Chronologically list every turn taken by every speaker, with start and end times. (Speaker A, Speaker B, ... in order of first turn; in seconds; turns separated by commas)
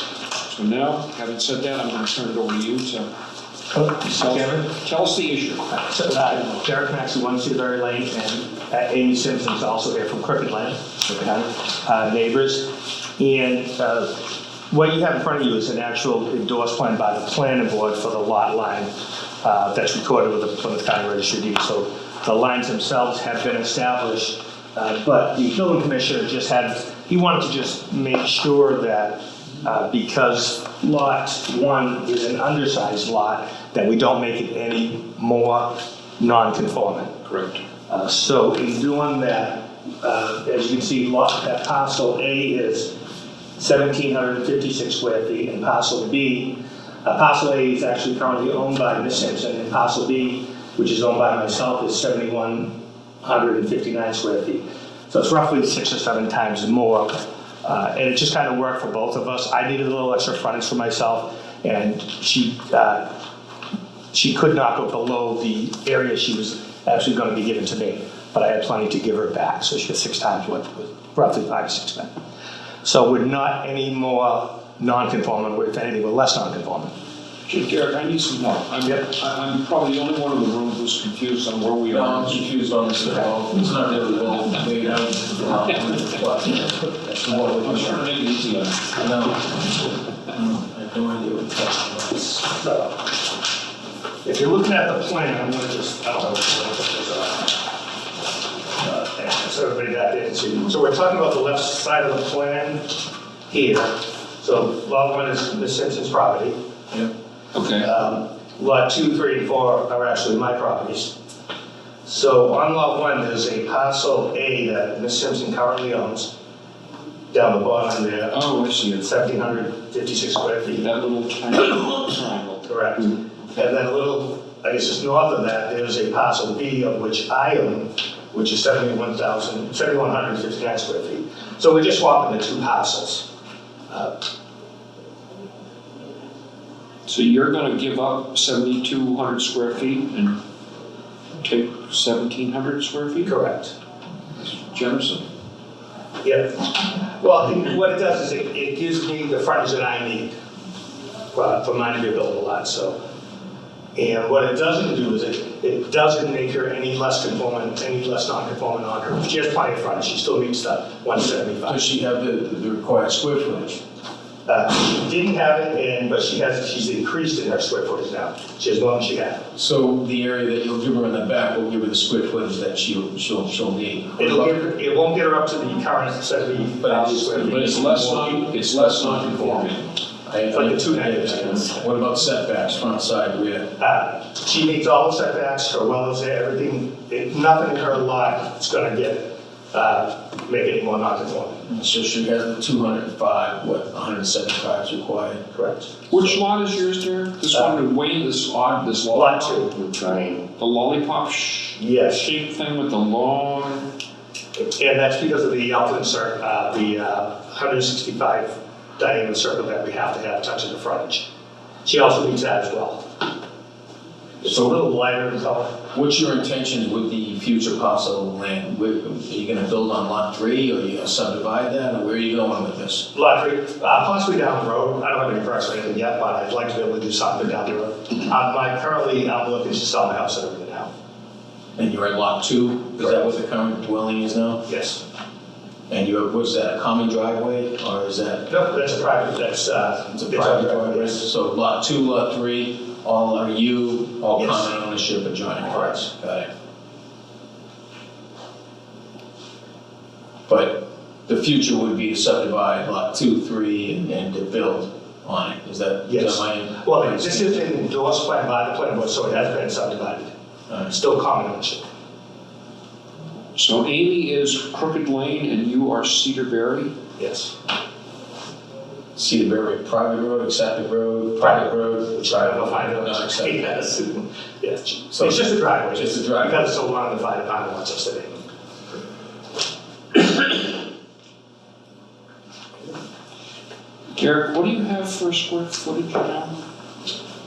Speaker A: 0.5-3.1, Speaker B: 3.7-4.7, Speaker A: 4.1-5.8, Speaker B: 5.7-18.9, Speaker B: 19.4-37.2, Speaker A: 37.3-37.6, Speaker B: 37.9-43.0, Speaker B: 43.6-63.1, Speaker B: 64.1-72.1, Speaker B: 72.8-76.9, Speaker A: 77.5-82.4, Speaker C: 81.9-88.0, Speaker A: 87.3-89.0, Speaker C: 89.0-92.5, Speaker B: 92.5-93.1, Speaker B: 94.2-97.6, Speaker B: 98.8-106.6, Speaker A: 107.5-107.9, Speaker B: 107.8-111.1, Speaker B: 112.0-116.3, Speaker B: 117.3-118.4, Speaker A: 118.3-119.1, Speaker B: 119.0-120.9, Speaker A: 120.8-123.3, Speaker B: 122.7-133.3, Speaker B: 133.9-134.2, Speaker A: 137.1-140.4, Speaker A: 141.4-143.4, Speaker B: 143.2-143.8, Speaker A: 144.4-145.3, Speaker B: 146.2-150.3, Speaker B: 151.3-153.0, Speaker B: 153.9-161.8, Speaker C: 161.7-163.8, Speaker B: 164.5-169.5, Speaker C: 169.6-174.7, Speaker B: 174.2-178.4, Speaker C: 176.8-183.7, Speaker A: 177.3-179.9, Speaker B: 180.5-181.8, Speaker B: 183.8-191.7, Speaker C: 191.7-195.4, Speaker B: 195.5-195.9, Speaker A: 196.1-203.9, Speaker B: 199.1-199.7, Speaker B: 201.8-202.3, Speaker B: 204.6-211.3, Speaker B: 211.8-213.1, Speaker B: 214.4-215.8, Speaker C: 215.9-223.1, Speaker B: 223.1-230.9, Speaker C: 231.8-234.7, Speaker B: 233.0-233.3, Speaker B: 234.7-235.0, Speaker C: 235.9-238.5, Speaker B: 238.5-241.2, Speaker C: 240.2-246.5, Speaker B: 244.4-244.7, Speaker B: 245.6-246.0, Speaker C: 250.5-257.6, Speaker B: 256.1-260.3, Speaker B: 260.9-261.8, Speaker A: 263.6-267.0, Speaker B: 267.2-267.5, Speaker C: 269.1-273.7, Speaker B: 271.4-278.4, Speaker C: 275.1-276.7, Speaker A: 284.1-286.6